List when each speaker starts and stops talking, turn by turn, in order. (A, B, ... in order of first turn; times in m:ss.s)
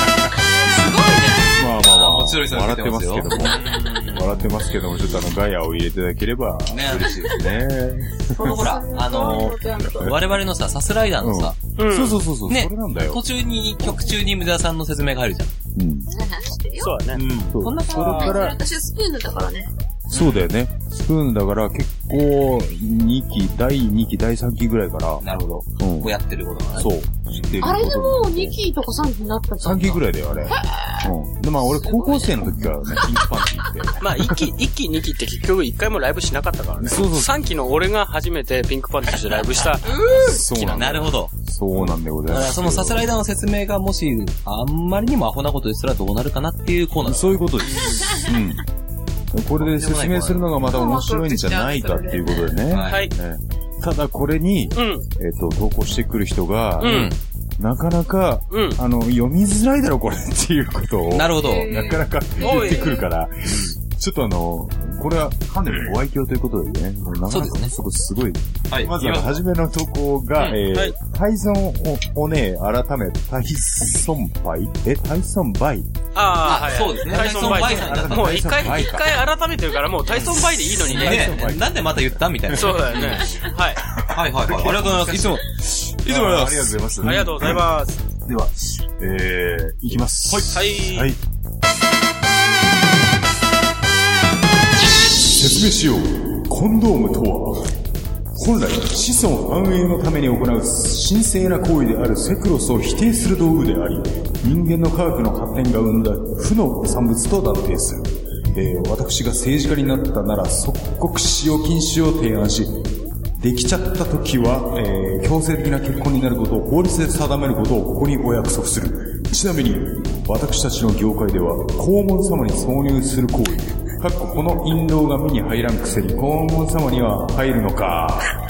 0:00.5-0:01.6 A
0:01.5-0:08.6 B
0:01.8-0:04.6 C
0:06.7-0:07.4 C
0:08.3-0:10.1 A
0:08.4-0:11.6 C
0:10.0-0:10.3 B
0:11.2-0:13.2 B
0:11.8-0:12.2 D
0:12.5-0:15.5 C
0:15.7-0:16.1 B
0:16.1-0:17.0 A
0:16.8-0:17.2 D
0:17.1-0:18.5 C
0:17.5-0:18.6 B
0:17.9-0:19.7 A
0:20.1-0:20.5 C
0:20.1-0:25.2 B
0:25.2-0:27.6 C
0:25.8-0:26.1 B
0:26.7-0:28.6 B
0:27.6-0:33.9 A
0:29.6-0:34.4 B
0:34.0-0:41.0 D
0:36.8-0:37.4 B
0:39.8-0:40.4 A
0:40.1-0:43.1 B
0:40.7-0:47.4 C
0:47.0-0:48.6 B
0:49.3-1:15.9 B
0:49.6-0:50.5 C
0:50.6-0:52.6 A
0:52.7-0:53.0 C
0:52.8-0:53.1 D
0:54.7-0:55.0 D
0:56.8-0:57.2 C
0:56.8-0:57.1 D
0:58.5-0:58.8 D
1:01.1-1:02.0 C
1:01.4-1:03.0 A
1:02.4-1:03.0 D
1:03.4-1:03.8 C
1:07.3-1:07.7 C
1:08.7-1:09.4 C
1:16.1-1:21.4 D
1:16.4-1:18.7 C
1:17.2-1:19.1 B
1:20.1-1:23.4 C
1:20.7-1:21.8 B
1:22.5-1:22.8 B
1:22.5-1:23.8 D
1:24.0-1:27.1 C
1:24.1-1:27.6 B
1:27.0-1:28.0 D
1:28.2-1:31.2 B
1:30.5-1:31.1 D
1:35.2-1:37.7 B
1:38.3-2:08.3 B